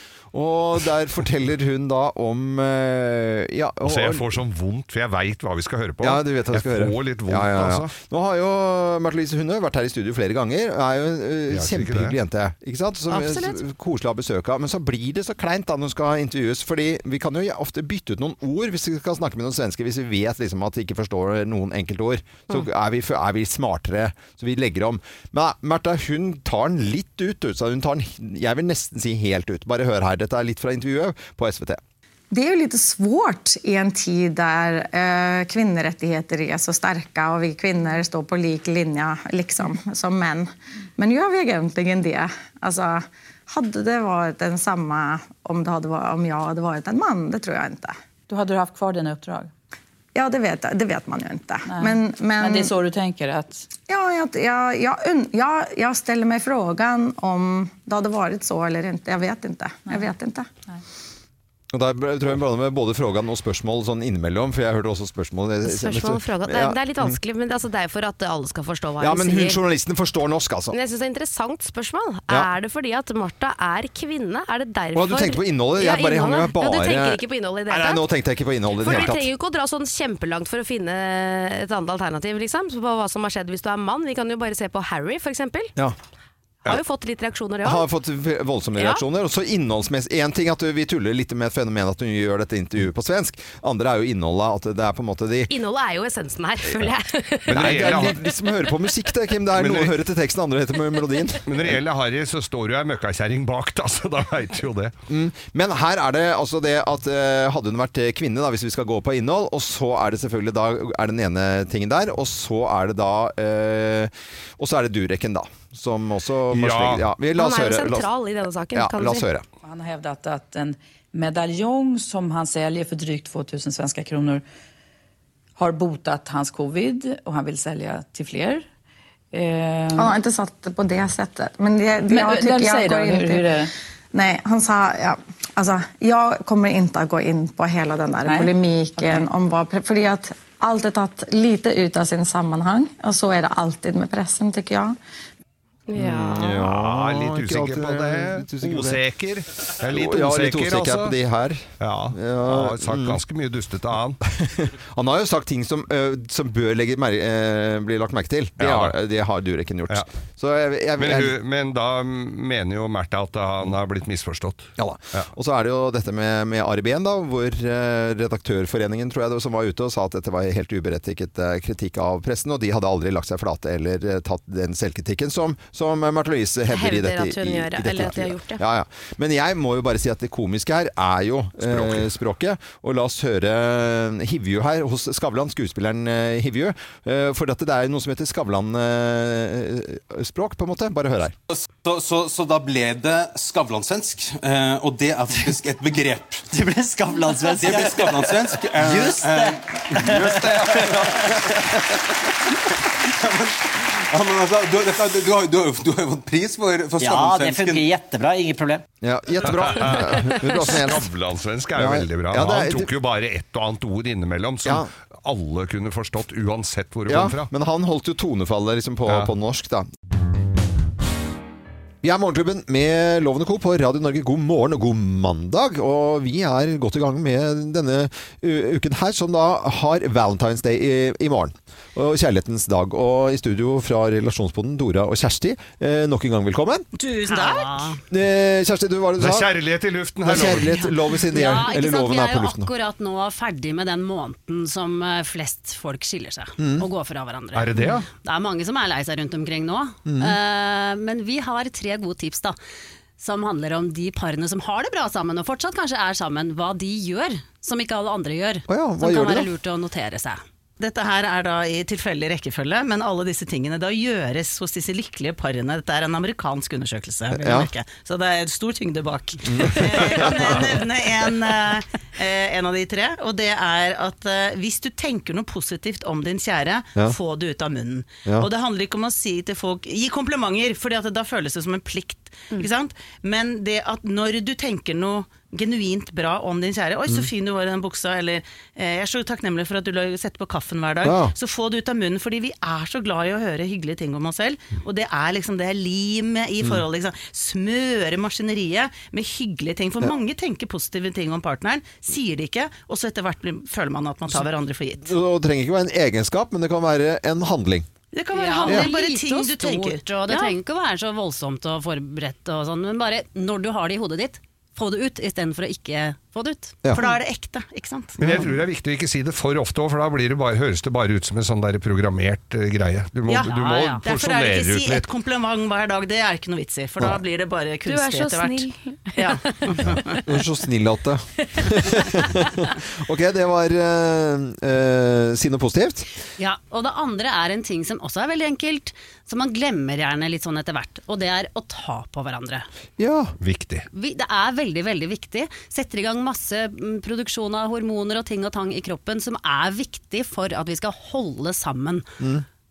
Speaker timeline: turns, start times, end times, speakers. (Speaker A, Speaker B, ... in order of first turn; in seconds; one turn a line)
Speaker A: 0.3-4.4
Speaker B: 3.8-7.9
Speaker A: 6.0-31.8
Speaker B: 11.5-12.2
Speaker C: 13.1-13.6
Speaker D: 32.3-48.0
Speaker E: 48.3-49.5
Speaker D: 50.1-52.7
Speaker E: 51.7-53.7
Speaker D: 53.9-60.5
Speaker A: 61.7-67.2
Speaker C: 65.7-69.6
Speaker A: 69.0-70.8
Speaker C: 70.7-78.1
Speaker A: 74.9-79.3
Speaker C: 78.8-85.7
Speaker C: 86.7-87.8
Speaker A: 87.6-95.5
Speaker C: 88.8-89.0
Speaker C: 95.5-97.9
Speaker B: 97.5-98.2
Speaker A: 97.5-101.8
Speaker B: 99.5-100.0
Speaker B: 101.5-104.9
Speaker A: 105.1-118.1
Speaker B: 116.5-117.1
Speaker C: 117.3-119.3
Speaker A: 118.7-119.5
Speaker E: 119.6-124.4
Speaker E: 125.6-128.7
Speaker E: 129.3-130.2
Speaker D: 130.0-144.9
Speaker E: 132.1-133.7
Speaker E: 138.2-139.2
Speaker C: 145.9-146.6
Speaker A: 145.9-149.0
Speaker B: 146.6-151.2
Speaker A: 149.8-153.2
Speaker B: 151.8-154.2
Speaker A: 154.2-161.3
Speaker B: 158.6-159.0
Speaker B: 161.0-165.3
Speaker A: 164.8-191.3
Speaker C: 176.7-178.6
Speaker B: 181.7-182.1
Speaker F: 191.5-201.8
Speaker G: 196.5-201.1
Speaker F: 203.0-207.9
Speaker G: 207.0-208.8
Speaker A: 209.0-211.1
Speaker B: 209.4-217.5
Speaker A: 211.8-212.9
Speaker A: 214.6-214.9
Speaker A: 217.1-219.9
Speaker A: 222.0-236.9
Speaker H: 237.0-238.0
Speaker I: 237.2-238.0
Speaker A: 238.1-239.5
Speaker B: 239.2-240.9
Speaker A: 240.2-242.7
Speaker I: 241.3-252.6
Speaker A: 246.6-246.9
Speaker B: 247.5-248.1
Speaker A: 250.1-250.4
Speaker I: 253.2-260.4
Speaker A: 258.7-259.5
Speaker H: 260.8-305.1
Speaker A: 267.3-267.7
Speaker A: 269.5-270.6
Speaker A: 291.0-291.3
Speaker A: 305.0-307.9
Speaker H: 308.1-310.5
Speaker I: 308.3-317.1
Speaker H: 316.9-318.5
Speaker B: 318.2-325.1
Speaker H: 323.3-330.2
Speaker I: 323.6-324.0
Speaker C: 327.9-329.7
Speaker A: 330.3-336.1
Speaker I: 336.4-342.7
Speaker A: 343.0-343.4
Speaker B: 343.4-343.9
Speaker I: 343.9-352.1
Speaker A: 352.2-352.4